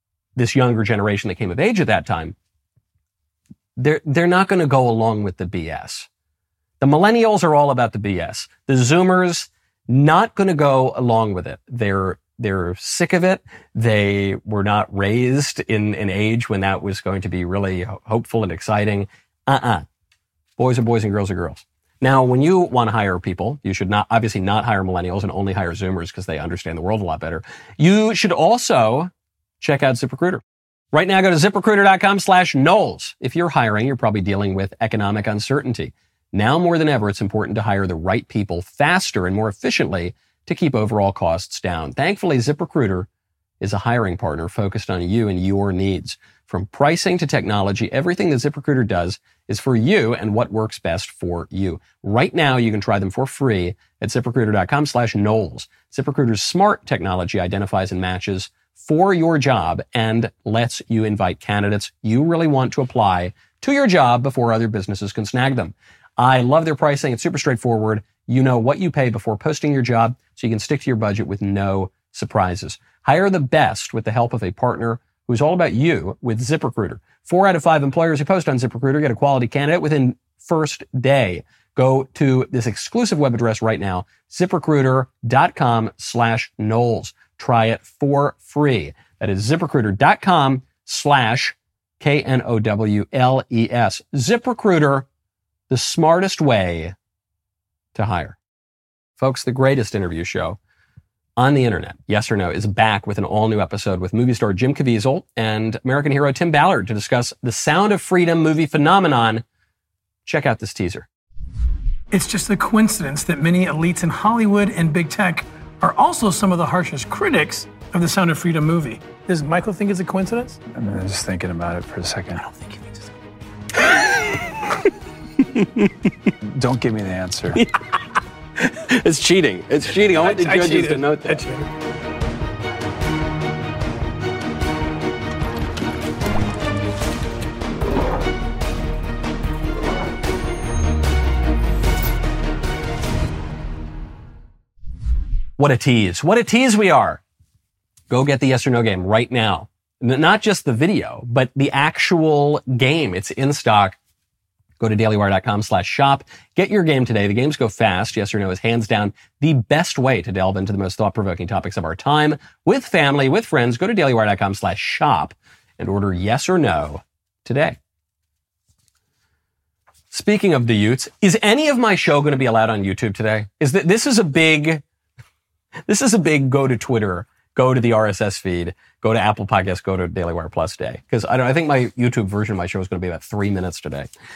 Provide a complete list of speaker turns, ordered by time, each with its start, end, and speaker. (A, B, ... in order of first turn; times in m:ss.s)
0:00.4-0:02.3 A
0:03.8-0:06.1 A
0:06.8-0:19.8 A
0:20.6-0:30.4 A
0:30.9-0:43.1 A
0:43.6-1:35.0 A
1:35.7-1:36.9 A
1:37.9-1:38.4 A
1:39.2-1:40.6 A
1:41.4-1:49.4 A
1:50.2-1:51.1 A
1:52.1-2:00.6 B
2:00.7-2:02.4 C
2:02.5-2:03.0 B
2:06.5-2:07.6 C
2:08.7-2:11.5 A
2:10.0-2:11.7 B
2:25.6-2:27.2 A
2:28.1-2:34.0 A
2:34.8-2:47.8 A
2:50.1-2:54.8 A
2:55.9-3:04.1 A